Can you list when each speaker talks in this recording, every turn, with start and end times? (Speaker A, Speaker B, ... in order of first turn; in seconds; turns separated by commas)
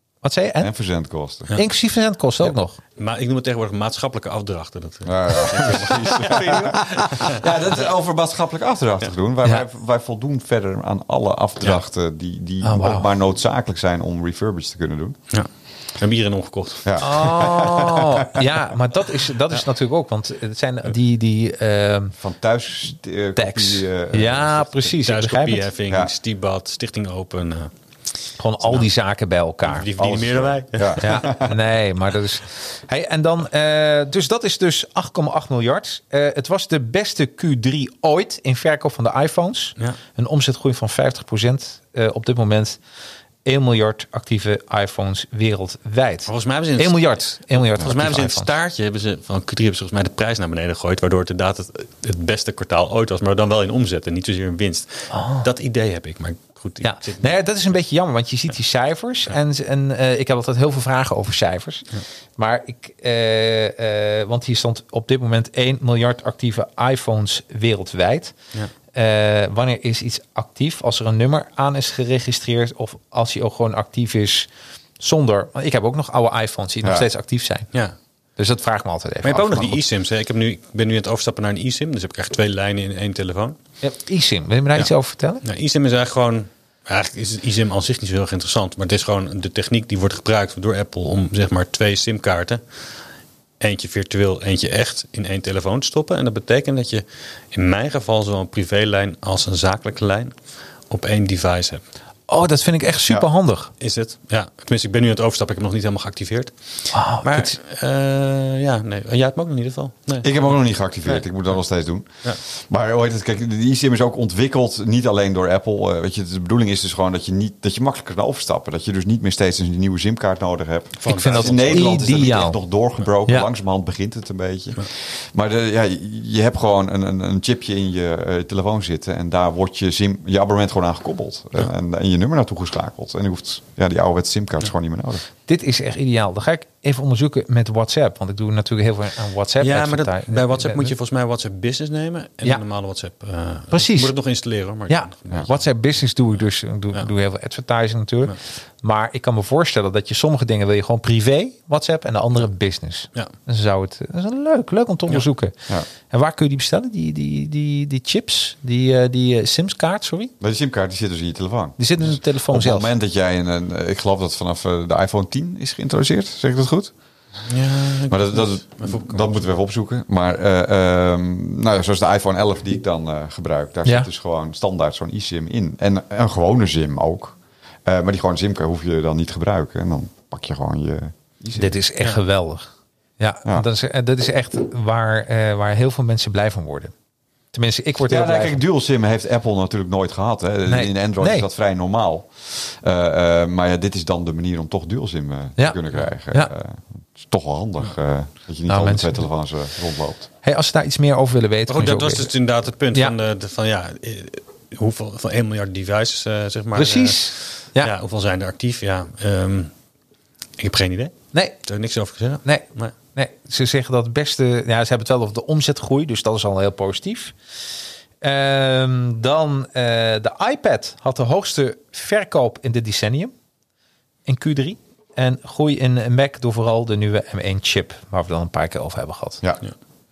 Speaker A: 0.2-0.7, Speaker B: 0.6-1.6, Speaker A: 1.5-2.8, Speaker C: 3.0-7.5, Speaker B: 5.0-15.2, Speaker A: 12.6-13.1, Speaker C: 16.0-17.1, Speaker B: 16.9-18.5, Speaker A: 17.0-22.1, Speaker B: 22.2-24.9, Speaker A: 23.4-25.7, Speaker C: 25.0-27.7, Speaker A: 28.4-29.9, Speaker C: 29.6-31.2, Speaker B: 30.0-31.6, Speaker A: 31.0-42.8, Speaker A: 43.5-48.5, Speaker C: 46.3-57.3, Speaker A: 55.1-55.5, Speaker A: 56.8-68.3, Speaker A: 68.9-77.7, Speaker A: 78.4-79.8, Speaker C: 79.2-83.6, Speaker A: 83.8-85.4, Speaker C: 85.4-92.6, Speaker C: 93.6-100.3, Speaker C: 100.9-101.8, Speaker A: 102.3-103.7, Speaker C: 103.8-110.3, Speaker A: 106.9-107.6, Speaker B: 110.2-135.2, Speaker C: 121.0-122.0, Speaker A: 121.1-122.6, Speaker A: 135.5-140.9, Speaker C: 139.6-145.6, Speaker A: 143.7-144.2, Speaker A: 144.9-155.6, Speaker A: 156.1-160.3, Speaker B: 160.4-166.9, Speaker A: 161.8-162.9, Speaker C: 167.5-169.3, Speaker B: 168.1-181.7, Speaker A: 181.6-182.7, Speaker A: 183.2-186.9, Speaker A: 187.5-188.6, Speaker B: 188.1-200.3, Speaker A: 190.7-191.5, Speaker A: 198.7-199.2, Speaker A: 200.4-202.3, Speaker C: 201.7-209.7, Speaker A: 206.8-207.9, Speaker C: 210.6-212.9, Speaker A: 212.4-217.3, Speaker A: 218.2-223.3, Speaker A: 224.3-229.4